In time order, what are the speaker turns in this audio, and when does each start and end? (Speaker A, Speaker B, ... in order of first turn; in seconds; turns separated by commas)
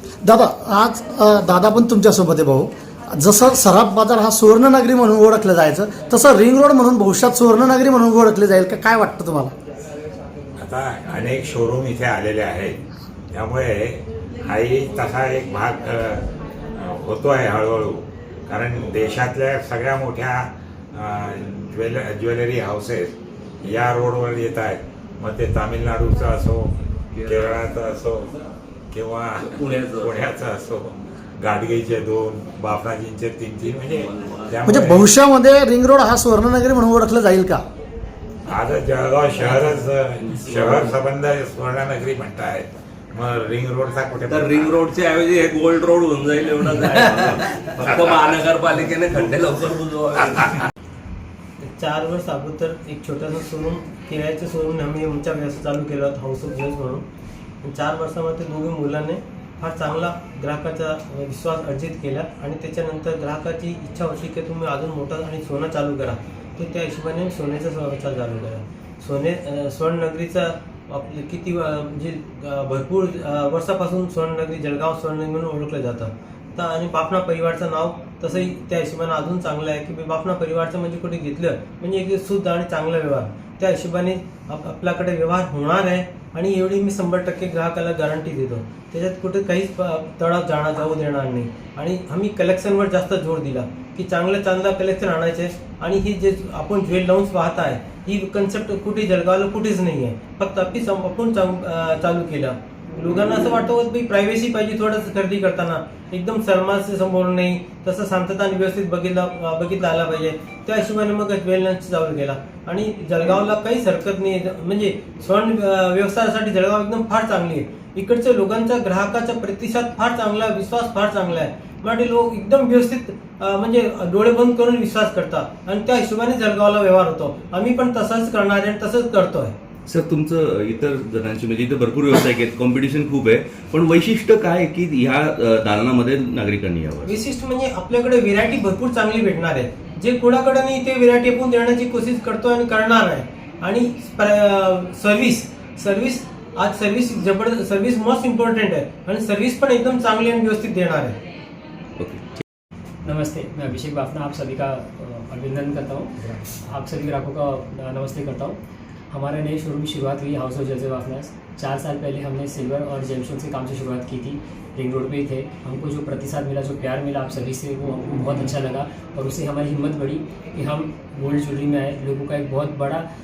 Speaker A: 0.2-9.5, Speaker B: 10.6-12.8, Speaker B: 13.3-16.2, Speaker B: 16.8-20.4, Speaker B: 20.9-26.7, Speaker C: 27.1-27.6, Speaker B: 27.2-28.4, Speaker B: 28.9-35.1, Speaker C: 29.4-30.2, Speaker C: 33.9-34.8, Speaker A: 34.6-37.6, Speaker B: 38.5-44.6, Speaker C: 44.3-50.6, Speaker D: 51.6-57.0, Speaker D: 57.6-129.5, Speaker E: 129.9-137.1, Speaker D: 137.1-151.2, Speaker F: 153.0-156.1, Speaker F: 156.6-158.6, Speaker F: 159.1-173.0